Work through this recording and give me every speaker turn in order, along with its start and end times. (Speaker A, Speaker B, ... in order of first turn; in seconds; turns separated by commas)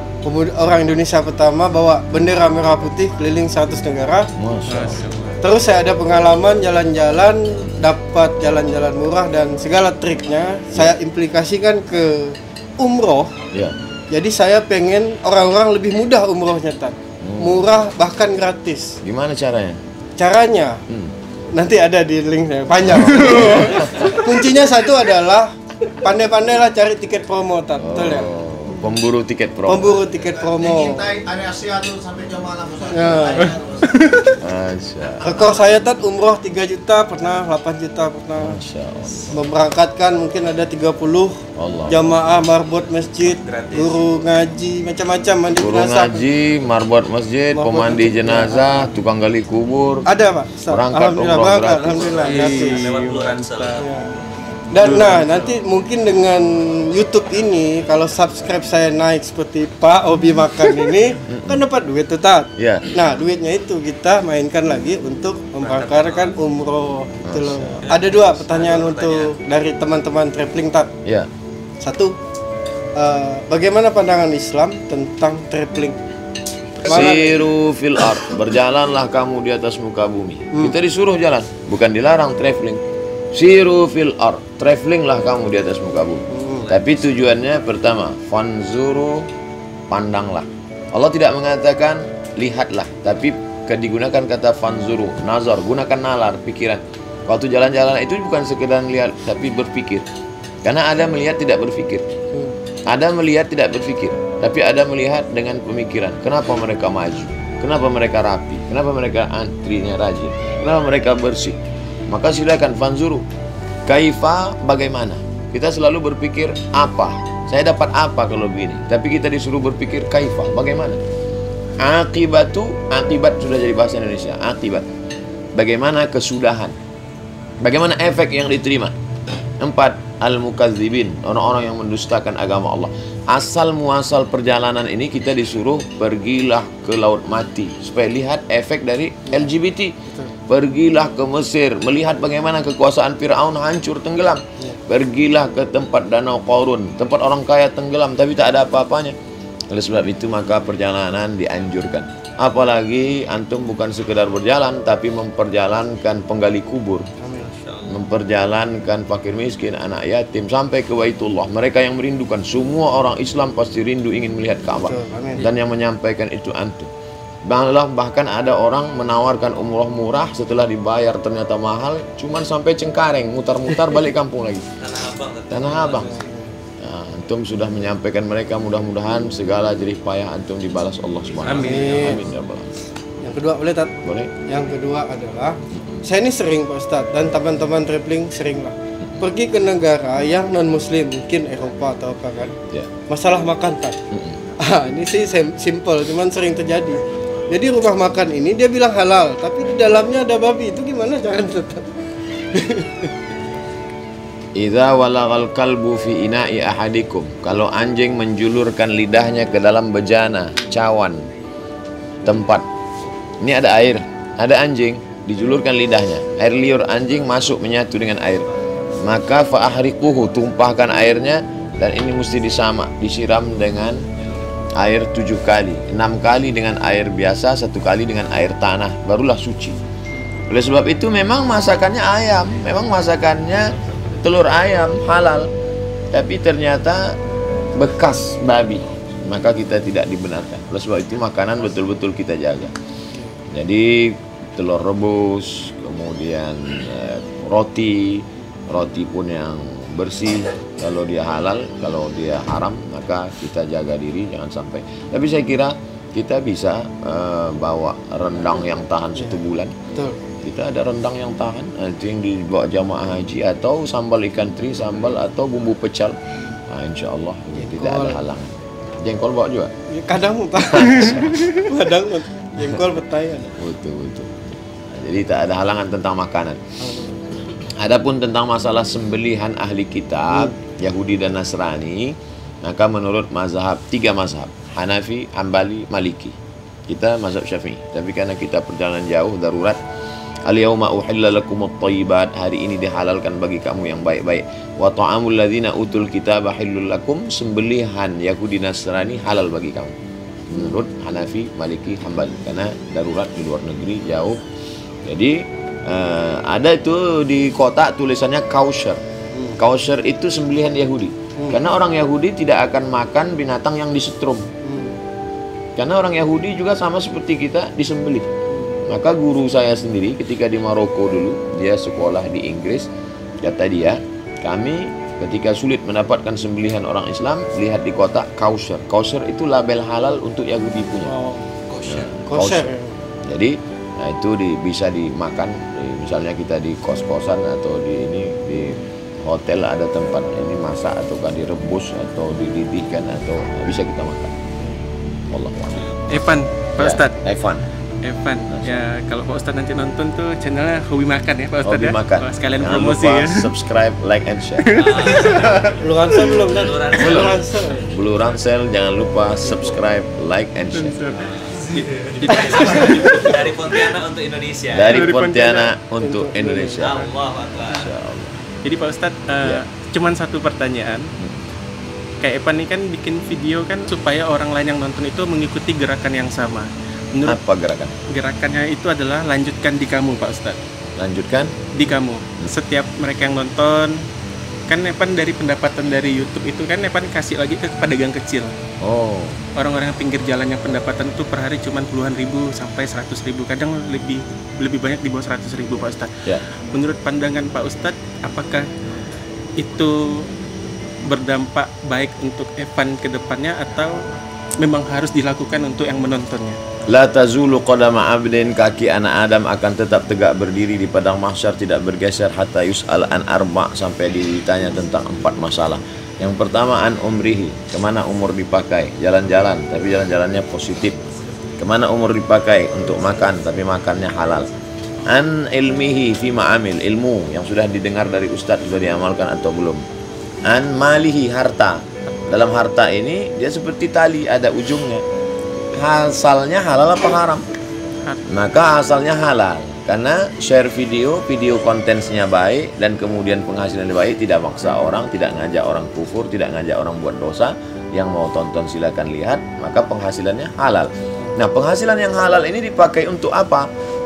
Speaker A: 0.2-4.3, Speaker B: 4.4-5.0, Speaker C: 4.7-5.4, Speaker A: 5.4-13.3, Speaker A: 14.1-18.9, Speaker B: 17.2-17.7, Speaker B: 19.0-19.8, Speaker A: 20.2-20.7, Speaker A: 21.5-25.5, Speaker B: 23.0-23.7, Speaker A: 26.0-28.3, Speaker B: 27.8-30.0, Speaker A: 29.7-31.6, Speaker A: 32.5-33.6, Speaker C: 33.9-34.2, Speaker B: 34.4-35.3, Speaker A: 35.2-38.6, Speaker B: 38.4-39.4, Speaker A: 39.3-41.3, Speaker B: 41.6-42.1, Speaker A: 41.9-46.3, Speaker D: 43.3-44.0, Speaker B: 45.6-50.1, Speaker A: 47.5-48.9, Speaker A: 50.1-53.0, Speaker B: 50.7-52.0, Speaker D: 51.8-53.9, Speaker C: 52.2-53.8, Speaker A: 53.8-54.1, Speaker A: 54.7-70.9, Speaker C: 54.8-55.5, Speaker B: 61.3-61.6, Speaker B: 62.6-62.9, Speaker D: 65.6-66.3, Speaker B: 67.2-67.8, Speaker D: 67.8-69.3, Speaker A: 71.8-72.1, Speaker A: 72.9-76.0, Speaker A: 76.8-77.5, Speaker B: 76.8-82.8, Speaker B: 83.3-89.3, Speaker A: 86.3-86.7, Speaker D: 86.5-86.8, Speaker B: 89.9-100.0, Speaker B: 100.6-102.0, Speaker B: 102.9-111.6, Speaker B: 112.1-113.2, Speaker B: 113.8-121.0, Speaker B: 121.8-124.8, Speaker B: 125.5-126.7, Speaker B: 127.6-128.9, Speaker B: 129.6-139.9, Speaker B: 140.5-149.1, Speaker B: 149.7-157.0, Speaker A: 157.2-157.5, Speaker D: 157.6-158.0, Speaker B: 157.9-166.9, Speaker A: 164.8-165.5, Speaker B: 167.5-174.6, Speaker D: 174.8-176.2, Speaker B: 175.5-176.1, Speaker A: 175.9-176.5, Speaker B: 176.8-182.7, Speaker D: 181.4-181.8, Speaker C: 181.4-182.1, Speaker A: 181.6-182.2, Speaker A: 183.2-183.9, Speaker B: 184.0-184.3, Speaker A: 184.5-192.5, Speaker A: 193.1-193.9, Speaker A: 194.6-201.9, Speaker A: 202.5-203.1, Speaker B: 204.6-211.3, Speaker B: 212.2-212.6, Speaker B: 213.4-218.5, Speaker B: 219.0-224.0, Speaker B: 224.8-229.8, Speaker B: 230.5-233.7, Speaker B: 234.2-235.5, Speaker B: 236.1-237.2, Speaker B: 237.8-242.7, Speaker B: 243.5-259.7, Speaker B: 260.4-266.2, Speaker B: 266.7-269.7, Speaker A: 267.6-268.2, Speaker A: 269.9-273.5, Speaker B: 270.8-271.4, Speaker B: 273.6-274.3, Speaker B: 274.9-276.6, Speaker A: 276.8-277.2, Speaker B: 277.6-286.3, Speaker B: 286.9-289.8, Speaker B: 290.5-299.9, Speaker B: 300.5-304.4, Speaker B: 305.1-305.3, Speaker B: 305.9-309.0, Speaker B: 309.6-314.5, Speaker A: 314.6-315.0, Speaker B: 315.8-318.3, Speaker A: 318.5-318.8, Speaker B: 318.9-322.9, Speaker B: 323.4-331.1, Speaker A: 331.1-331.5, Speaker D: 331.7-332.1, Speaker B: 331.8-332.7, Speaker A: 332.2-332.9, Speaker B: 333.3-344.3, Speaker B: 345.3-346.2, Speaker C: 346.1-347.1, Speaker B: 346.8-347.6, Speaker C: 348.0-353.4, Speaker B: 351.6-354.8, Speaker C: 354.7-355.6, Speaker D: 354.7-357.4, Speaker A: 355.8-357.9, Speaker B: 357.0-357.4, Speaker B: 357.9-361.0, Speaker C: 360.7-362.8, Speaker D: 361.3-365.1, Speaker A: 362.5-362.9, Speaker B: 364.7-367.1, Speaker C: 364.9-365.7, Speaker A: 366.0-367.0, Speaker D: 366.8-367.9, Speaker B: 367.6-368.3, Speaker C: 368.6-371.1, Speaker C: 372.2-377.4, Speaker B: 377.2-377.9, Speaker C: 378.1-380.6, Speaker B: 381.0-381.5, Speaker C: 381.7-383.9, Speaker C: 384.7-388.5, Speaker B: 388.8-389.4, Speaker C: 389.6-396.1, Speaker C: 396.7-398.6, Speaker C: 399.6-400.3, Speaker C: 401.0-404.0, Speaker C: 404.6-406.6, Speaker B: 406.9-421.0, Speaker B: 421.6-424.5, Speaker B: 425.1-429.8, Speaker B: 430.5-435.0, Speaker B: 435.8-437.4, Speaker B: 438.3-453.7